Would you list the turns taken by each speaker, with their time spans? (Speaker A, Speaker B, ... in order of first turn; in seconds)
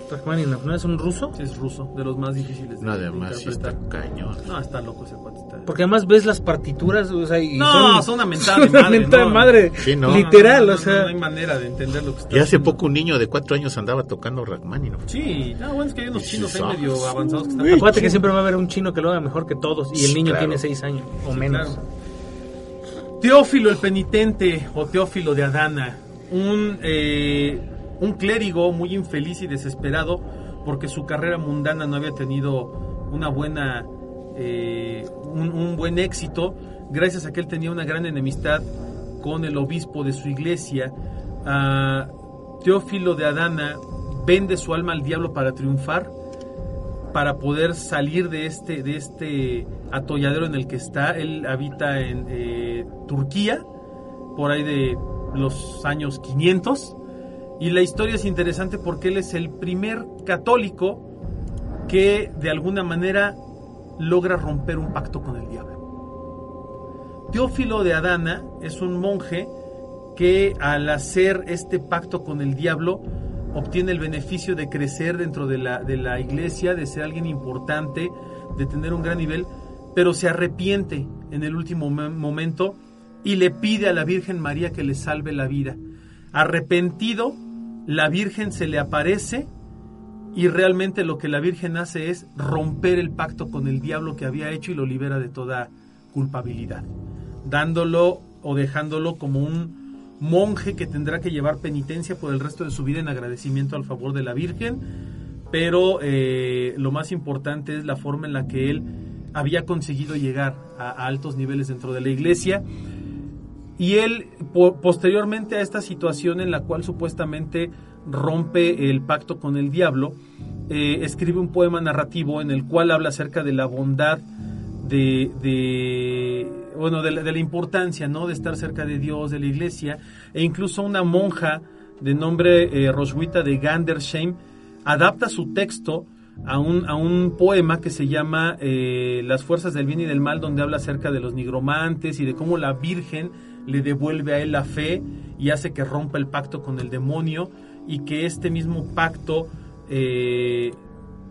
Speaker A: 0.1-1.4, 5.7-11.1, 17.7-21.8
Speaker B: 1.4-3.8, 4.4-5.7, 7.6-12.8, 15.1-18.2, 21.3-21.8, 23.2-38.7, 39.2-46.1, 47.1-53.6, 54.4-57.0, 57.6-61.0, 61.9-63.4, 64.0-65.8, 67.3-69.5, 70.2-85.8, 86.3-89.5, 90.3-96.9, 97.4-104.8, 105.5-112.6, 113.8-120.2, 120.7-124.2, 124.8-150.8
Speaker C: 2.8-4.4, 9.8-10.3, 12.3-15.1, 16.1-18.2, 19.9-20.6